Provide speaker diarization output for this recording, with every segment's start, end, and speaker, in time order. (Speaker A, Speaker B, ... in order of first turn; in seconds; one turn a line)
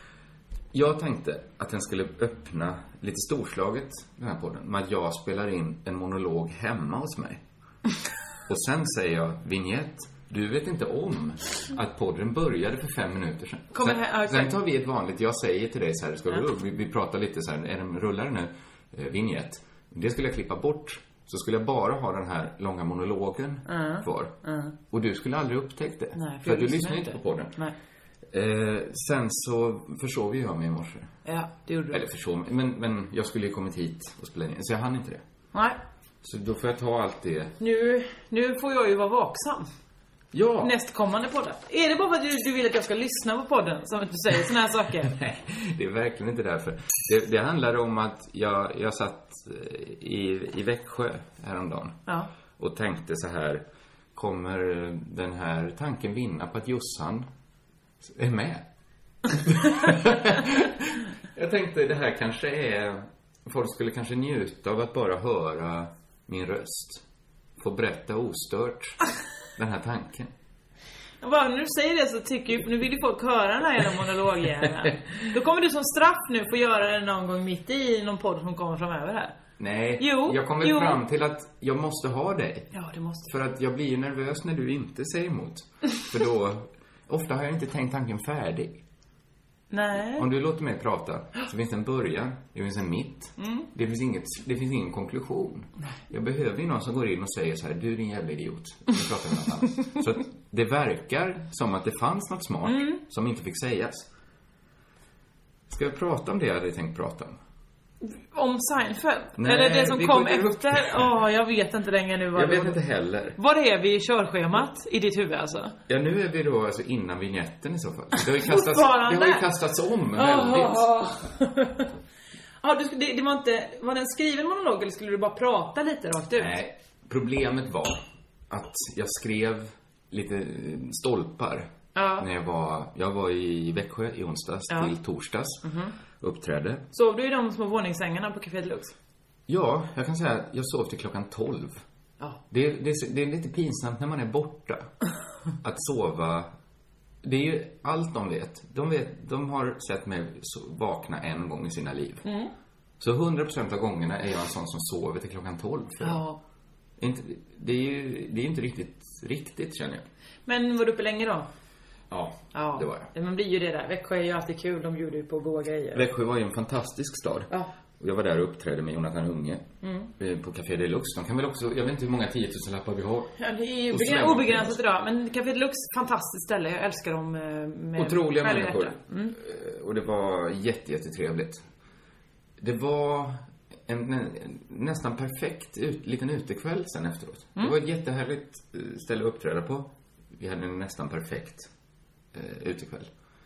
Speaker A: 0.7-7.4
Speaker A: 8.5-24.3
Speaker B: 13.7-14.6
Speaker B: 23.7-24.7
Speaker A: 24.9-27.6
Speaker B: 26.1-27.7
Speaker A: 28.3-31.1
Speaker B: 31.2-32.0
Speaker A: 31.9-35.2
Speaker A: 36.2-37.5
Speaker B: 37.6-39.7
Speaker A: 40.3-40.7
Speaker B: 40.6-45.1
Speaker A: 45.1-52.0
Speaker A: 52.6-53.6
Speaker A: 54.1-57.3
Speaker A: 58.0-58.6
Speaker A: 59.3-67.0
Speaker A: 67.6-69.0
Speaker A: 69.5-70.3
Speaker B: 71.2-79.3
Speaker A: 79.6-82.7
Speaker B: 80.0-81.0
Speaker B: 82.7-83.3
Speaker A: 83.3-88.8
Speaker B: 89.7-90.3
Speaker A: 90.2-104.1
Speaker B: 93.4-93.7
Speaker B: 102.6-103.0
Speaker A: 105.7-107.4
Speaker B: 108.0-112.8
Speaker A: 109.4-111.0
Speaker A: 112.3-113.4
Speaker B: 113.3-115.8
Speaker A: 115.9-120.9
Speaker B: 118.3-119.5
Speaker B: 120.1-121.9
Speaker B: 122.6-126.5
Speaker A: 126.3-135.6
Speaker B: 131.9-132.3
Speaker B: 135.6-135.9
Speaker A: 136.2-136.8
Speaker B: 136.9-138.9
Speaker A: 139.5-141.8
Speaker A: 142.5-144.9
Speaker A: 145.6-146.5
Speaker A: 147.2-152.2
Speaker B: 152.2-152.5
Speaker A: 153.0-156.2
Speaker B: 156.0-156.4
Speaker A: 157.0-160.1
Speaker B: 160.4-161.5
Speaker A: 162.1-163.1
Speaker B: 162.5-166.0
Speaker A: 165.9-169.7
Speaker B: 169.8-170.1
Speaker A: 170.2-173.3
Speaker B: 173.4-179.3
Speaker A: 173.9-174.8
Speaker A: 177.9-181.6
Speaker A: 182.6-191.7
Speaker A: 192.3-193.1